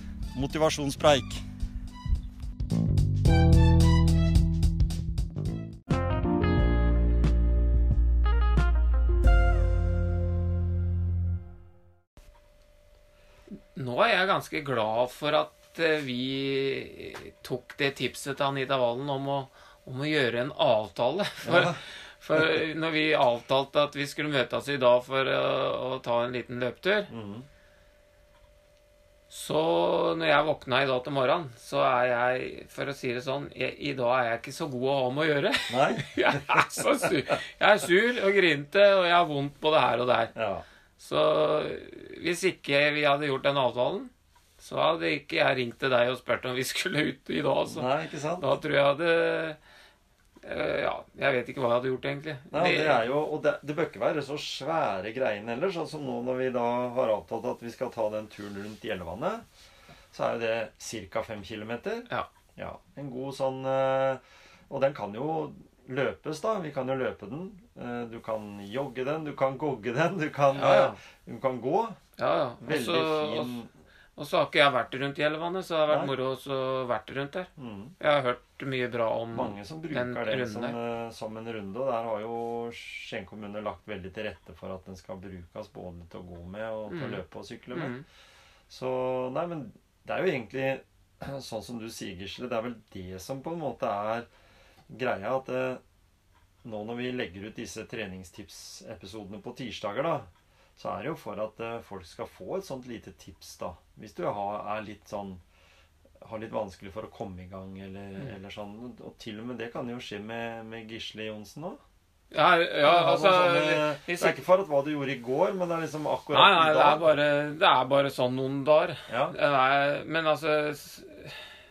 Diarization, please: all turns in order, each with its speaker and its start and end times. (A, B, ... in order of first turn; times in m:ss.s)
0:00.3-0:01.4 A
0:13.7-0:27.1 B
0:21.4-0:21.8 A
0:27.1-0:27.4 A
0:29.3-0:40.3 B
0:35.7-0:36.9 A
0:40.3-0:40.6 A
0:41.0-0:49.6 B
0:47.7-0:48.5 A
0:50.4-0:53.1 B
0:52.5-0:59.4 A
1:00.1-1:12.0 A
1:10.5-1:11.0 B
1:12.2-1:13.6 B
1:12.6-1:13.7 A
1:14.2-1:17.5 B
1:17.6-1:17.9 A
1:18.0-1:20.8 B
1:19.3-1:27.9 A
1:26.9-1:27.2 B
1:27.7-1:28.0 B
1:28.7-1:34.3 A
1:34.9-1:35.8 A
1:36.6-1:45.4 A
1:46.2-1:51.8 A
1:52.3-1:54.4 B
1:52.8-1:57.1 A
1:56.3-2:01.4 B
1:59.1-1:59.3 A